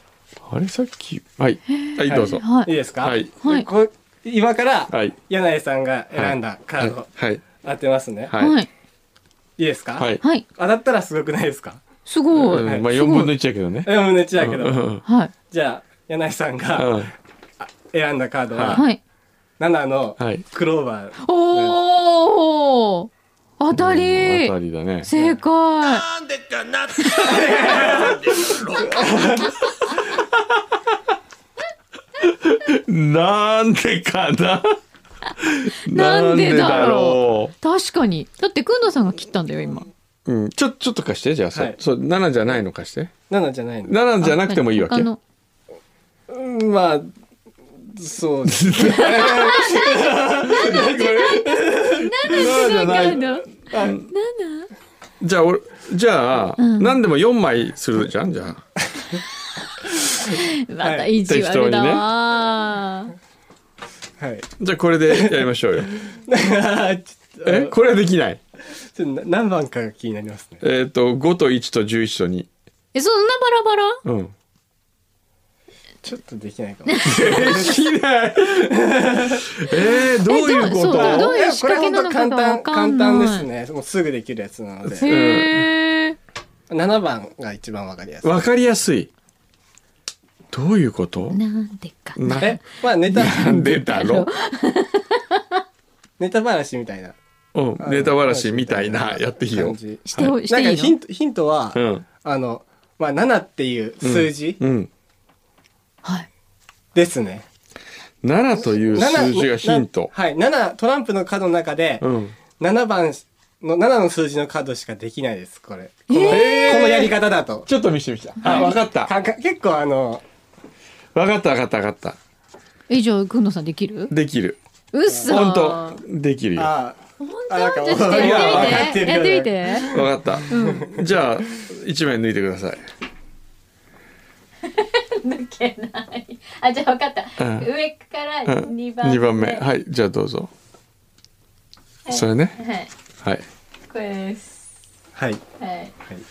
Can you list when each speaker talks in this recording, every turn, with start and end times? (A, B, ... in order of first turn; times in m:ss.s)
0:00.4-0:02.5 A
0:01.7-0:02.7 B
0:02.1-0:08.3 C
0:03.0-0:03.4 A
0:03.4-0:03.7 B
0:04.9-0:05.2 A
0:06.1-0:07.4 A
0:08.3-0:08.6 A
0:08.4-0:08.7 B
0:09.6-0:11.8 C
0:10.0-0:10.2 A
0:10.2-0:10.5 B
0:12.1-0:13.3 B
0:12.4-0:15.0 A
0:12.6-0:13.2 C
0:13.8-0:14.9 C
0:15.0-0:15.3 B
0:15.5-0:17.1 C
0:16.8-0:17.1 A
0:17.6-0:18.9 C
0:18.5-0:18.8 A
0:18.7-0:19.0 B
0:19.6-0:21.8 C
0:20.2-0:20.5 A
0:21.2-0:26.1 B
0:23.7-0:25.1 A
0:25.1-0:25.4 C
0:25.8-0:29.1 D
0:27.0-0:27.4 B
0:27.2-0:28.2 C
0:28.8-0:29.5 C
0:32.2-0:34.8 A
0:35.4-0:37.5 A
0:35.8-0:39.9 B
0:40.3-0:43.1 A
0:43.3-0:44.0 C
0:43.8-0:45.1 A
0:44.2-0:45.2 B
0:46.3-0:47.1 C
0:47.9-0:51.0 C
0:48.4-0:54.1 A
0:48.8-0:54.7 B
0:52.3-0:53.2 C
0:55.2-0:58.6 A
0:56.6-0:57.0 B
1:00.2-1:03.1 B
1:00.8-1:01.1 C
1:01.2-1:02.1 A
1:04.2-1:04.5 C
1:04.6-1:06.0 A
1:05.1-1:05.4 C
1:06.1-1:07.8 C
1:07.4-1:08.4 A
1:08.7-1:10.6 C
1:10.6-1:12.5 A
1:12.9-1:14.0 B
1:14.0-1:14.4 A
1:16.0-1:17.8 C
1:16.9-1:17.5 B
1:17.0-1:21.4 A
1:18.6-1:19.5 C
1:20.2-1:23.5 B
1:20.9-1:25.1 C
1:25.0-1:26.2 B
1:25.0-1:25.7 A
1:26.7-1:28.5 C
1:28.2-1:29.1 A
1:30.5-1:31.4 A
1:31.3-1:32.6 B
1:32.2-1:32.6 A
1:32.4-1:33.8 C
1:33.1-1:34.3 A
1:33.2-1:35.4 B
1:36.2-1:37.2 C
1:37.5-1:40.4 A
1:37.8-1:44.6 C
1:40.1-1:41.0 B
1:41.7-1:42.1 A
1:44.0-1:44.9 A
1:46.9-1:47.5 C
1:48.2-1:50.1 A
1:48.6-1:52.1 C
1:52.0-1:52.4 A
1:52.6-1:57.7 C
1:56.1-1:57.1 B
1:56.2-1:59.1 A
1:58.4-1:58.7 B
1:58.4-2:00.2 C
2:01.2-2:02.2 A
2:02.9-2:04.2 B
2:04.1-2:04.6 A
2:04.9-2:06.0 B
2:05.1-2:05.4 C
2:05.3-2:06.7 A
2:06.6-2:10.0 C
2:07.2-2:09.9 B
2:08.0-2:09.0 A
2:09.8-2:12.9 A
2:10.5-2:10.9 B
2:10.6-2:10.9 C
2:14.7-2:19.7 B
2:17.4-2:17.7 A
2:18.5-2:20.5 A
2:22.1-2:22.9 B
2:22.1-2:22.6 A
2:23.9-2:24.6 B
2:25.2-2:25.4 C
2:25.6-2:25.9 B